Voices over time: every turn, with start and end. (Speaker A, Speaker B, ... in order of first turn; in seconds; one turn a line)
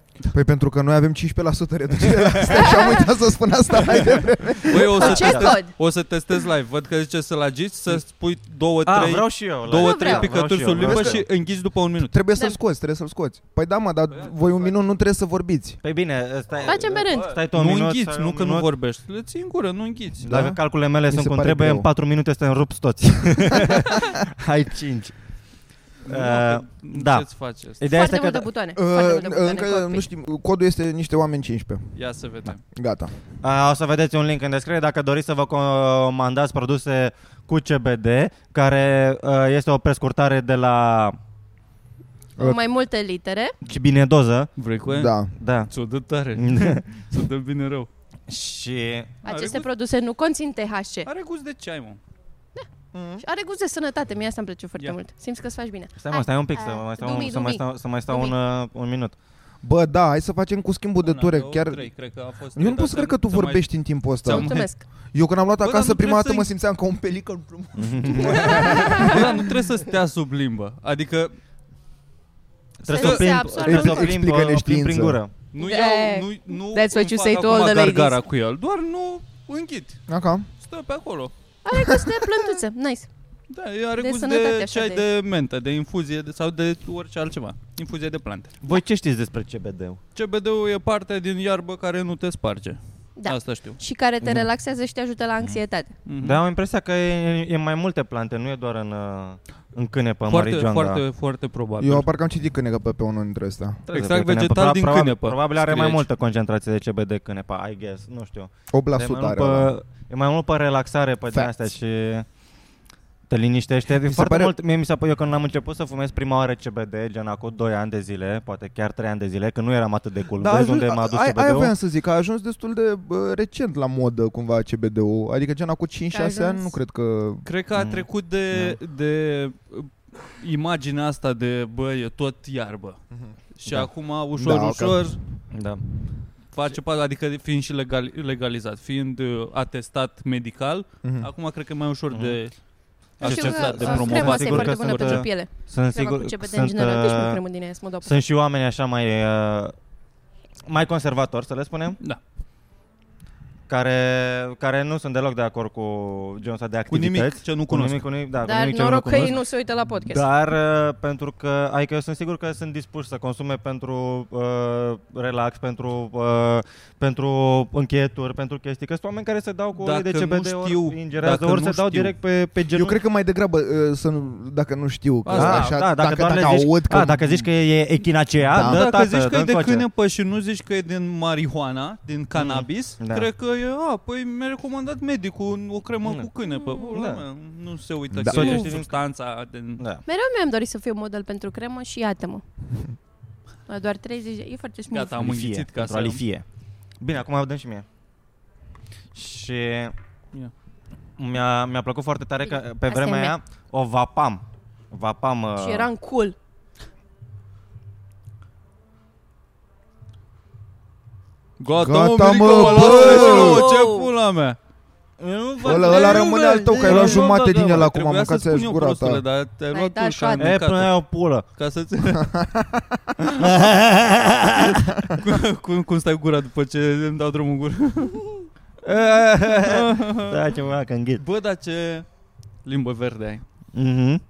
Speaker A: 0.3-5.4
Speaker B: 2.2-2.9
Speaker C: 2.4-3.1
Speaker D: 4.7-12.1
Speaker C: 4.8-5.7
Speaker B: 5.0-5.5
Speaker B: 8.8-11.2
Speaker C: 9.8-10.3
Speaker A: 10.8-11.2
Speaker A: 12.0-15.8
Speaker D: 14.1-14.8
Speaker B: 15.8-18.7
Speaker C: 16.6-17.4
Speaker D: 17.0-20.3
Speaker B: 20.2-25.1
Speaker A: 20.2-21.9
Speaker D: 26.0-27.8
Speaker B: 26.1-27.3
Speaker B: 27.8-28.5
Speaker C: 27.8-30.0
Speaker A: 28.7-31.9
Speaker D: 31.9-32.6
Speaker A: 32.7-33.1
Speaker B: 33.4-41.2
Speaker C: 42.4-43.5
Speaker B: 43.6-44.5
Speaker D: 44.6-47.9
Speaker A: 44.9-45.3
Speaker B: 45.4-45.7
Speaker B: 46.4-46.8
Speaker B: 48.3-49.1
Speaker C: 49.2-51.1
Speaker D: 49.2-49.7
Speaker D: 51.0-52.0
Speaker A: 52.9-53.2
Speaker C: 53.2-58.3
Speaker B: 56.0-59.1
Speaker A: 59.6-61.9
Speaker D: 61.0-63.7
Speaker A: 62.5-64.5
Speaker D: 64.2-64.7
Speaker C: 64.3-64.8
Speaker A: 65.1-69.5
Speaker D: 65.6-66.5
Speaker B: 67.8-69.1
Speaker C: 68.3-69.2
Speaker D: 68.5-71.3
Speaker B: 72.8-75.3
Speaker C: 72.9-74.1
Speaker D: 73.0-73.3
Speaker A: 73.5-75.2
Speaker D: 75.5-80.0
Speaker C: 75.6-78.2
Speaker A: 80.1-80.5
Speaker D: 80.6-81.3
Speaker C: 81.6-83.1
Speaker D: 83.5-88.5
Speaker C: 84.0-85.0
Speaker B: 88.6-90.0
Speaker D: 90.1-93.8
Speaker C: 93.2-95.9
Speaker B: 94.2-94.5
Speaker D: 96.0-96.4
Speaker B: 96.2-101.0
Speaker D: 100.3-102.0
Speaker A: 101.8-103.8
Speaker D: 103.9-106.0
Speaker B: 103.9-112.2
Speaker A: 108.7-109.7
Speaker B: 113.3-121.7
Speaker A: 114.0-114.5
Speaker A: 120.4-127.4
Speaker C: 126.1-126.7
Speaker D: 127.4-133.0
Speaker B: 127.7-128.8
Speaker D: 133.5-135.2
Speaker A: 134.3-135.2
Speaker B: 135.5-135.8
Speaker D: 136.5-142.6
Speaker A: 141.0-141.3
Speaker B: 142.1-142.4
Speaker D: 143.2-145.3
Speaker B: 143.2-147.4
Speaker C: 143.2-148.2
Speaker B: 148.0-149.7
Speaker B: 150.7-152.0
Speaker B: 153.7-159.4
Speaker D: 156.9-158.1
Speaker C: 158.4-160.2
Speaker B: 160.0-173.0
Speaker D: 169.8-172.1
Speaker A: 172.7-177.4
Speaker D: 175.2-175.8
Speaker B: 175.3-179.8
Speaker A: 178.5-178.8
Speaker D: 178.5-189.8
Speaker B: 182.3-183.3
Speaker C: 186.4-187.0
Speaker B: 186.9-187.2
Speaker A: 188.1-188.7
Speaker B: 188.2-189.0
Speaker B: 189.8-190.0
Speaker C: 190.1-192.4
Speaker C: 193.7-195.2
Speaker D: 194.9-196.2
Speaker B: 195.2-196.4
Speaker B: 197.0-197.8
Speaker B: 199.1-199.9
Speaker B: 201.2-205.9
Speaker C: 202.5-203.3
Speaker C: 205.6-206.3
Speaker D: 211.6-214.6
Speaker A: 211.7-213.6
Speaker C: 212.6-214.1
Speaker B: 215.2-217.8
Speaker A: 215.6-219.2
Speaker C: 215.7-217.0
Speaker D: 216.0-222.3
Speaker C: 219.7-220.5
Speaker B: 220.4-221.4
Speaker A: 222.2-223.1
Speaker B: 223.3-224.8
Speaker D: 225.0-228.4
Speaker B: 228.8-231.2
Speaker D: 229.6-230.4
Speaker D: 231.2-232.1
Speaker D: 232.6-233.4
Speaker B: 233.7-234.2